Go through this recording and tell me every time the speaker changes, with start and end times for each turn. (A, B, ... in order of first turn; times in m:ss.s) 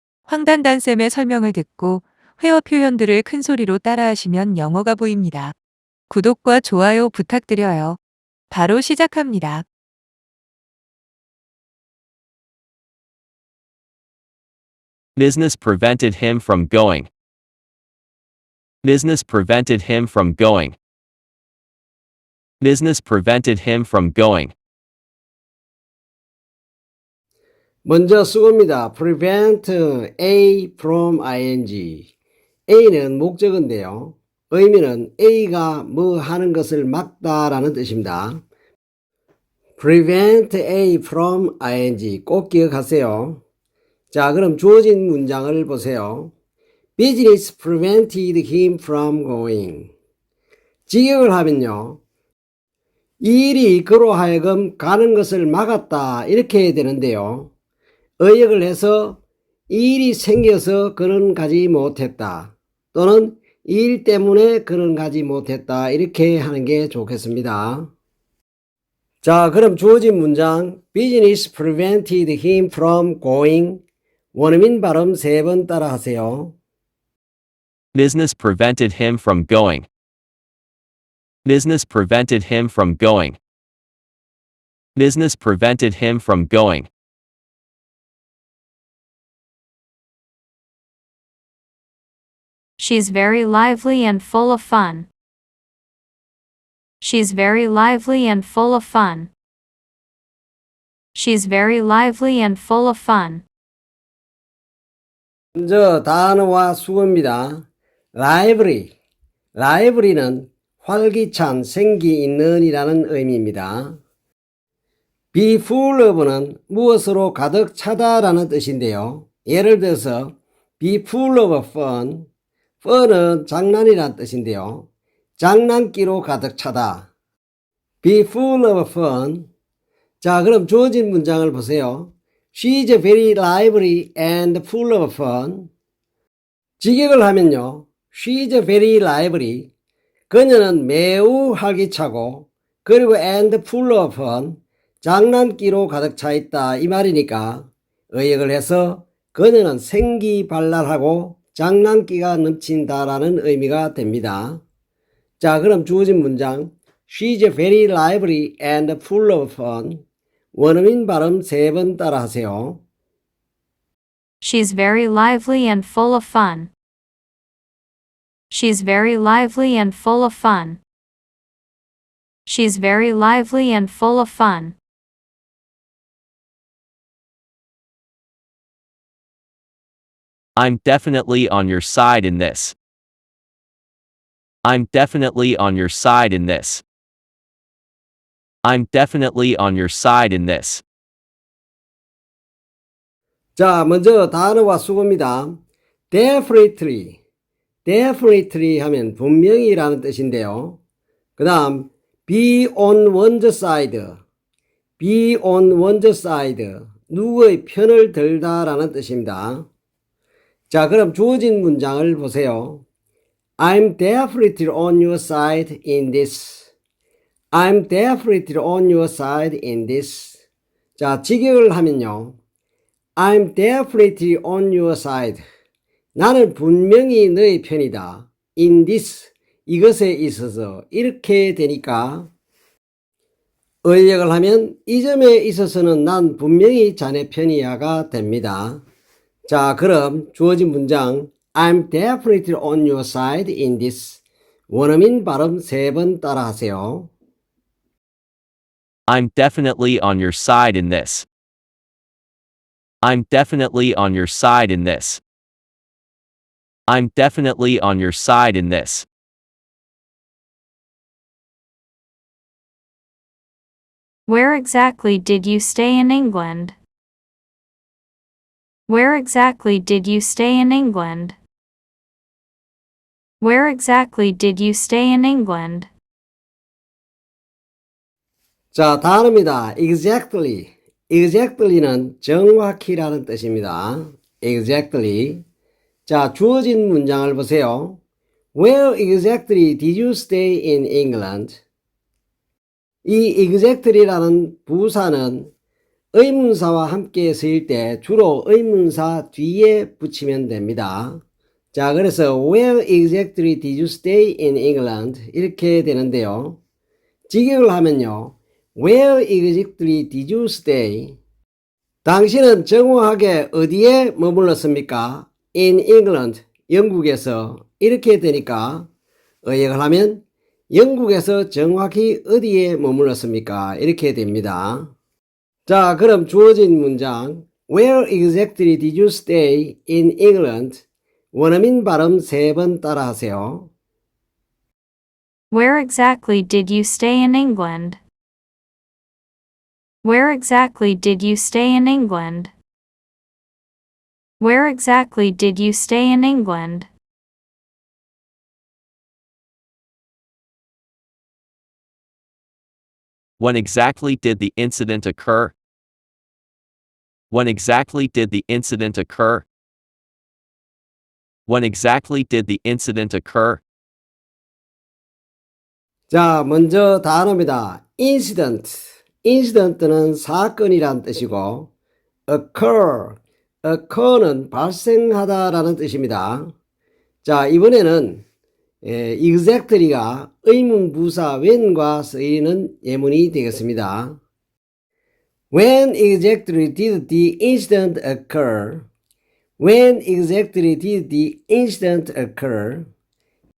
0:00.3-0:05.6 A
0:06.1-0:08.0 A
0:08.5-0:09.7 A
0:15.2-0:17.1 B
0:18.8-0:20.8 B
0:22.6-0:24.5 B
0:27.8-0:32.1 C
0:32.7-0:38.4 C
0:39.8-0:43.4 C
0:44.1-0:46.3 C
0:47.0-0:49.9 C
0:50.9-0:52.0 C
0:53.2-0:57.5 C
0:58.2-1:07.9 C
1:09.2-1:13.8 C
1:14.3-1:16.6 C
1:18.0-1:19.9 B
1:21.4-1:23.4 B
1:25.0-1:26.9 B
1:32.8-1:35.1 D
1:37.0-1:39.3 D
1:41.1-1:43.4 D
1:45.6-1:48.9 C
1:49.6-1:54.0 C
1:55.3-2:02.3 C
2:02.8-2:04.9 C
2:05.4-2:07.1 C
2:08.0-2:09.5 C
2:10.2-2:15.7 C
2:16.8-2:19.7 C
2:20.3-2:34.6 C
2:35.4-2:40.0 C
2:40.6-2:42.8 C
2:44.4-2:46.7 D
2:48.5-2:50.8 D
2:52.5-2:54.8 D
3:00.6-3:02.8 B
3:04.6-3:06.8 B
3:08.6-3:10.8 B
3:13.6-3:15.6 C
3:16.1-3:17.2 C
3:17.8-3:20.8 C
3:21.4-3:24.2 C
3:25.0-3:29.7 C
3:30.7-3:32.9 C
3:33.6-3:36.7 C
3:37.5-3:40.4 C
3:41.0-3:42.4 C
3:43.2-3:45.4 C
3:46.2-3:52.3 C
3:53.8-3:58.8 C
3:59.5-4:07.1 C
4:09.1-4:11.3 B
4:13.0-4:15.2 B
4:16.9-4:19.1 B
4:24.3-4:26.8 D
4:28.9-4:31.4 D
4:33.4-4:35.9 D
4:38.7-4:45.4 C
4:46.1-4:48.0 C
4:48.5-4:51.6 C
4:53.0-4:55.5 C
4:56.1-5:01.2 C
5:01.7-5:06.6 C
5:07.3-5:11.2 C
5:12.0-5:18.9 C
5:19.4-5:24.9 C
5:25.7-5:33.7 C
5:35.5-5:38.0 D
5:40.0-5:42.5 D
5:44.4-5:46.9 D
5:53.4-5:55.5 B
5:57.3-5:59.4 B
6:01.5-6:03.6 B
6:06.1-6:11.7 C
6:12.3-6:16.5 C
6:17.2-6:18.2 C
6:18.8-6:24.2 C
6:25.5-6:28.9 C
6:29.6-6:32.9 C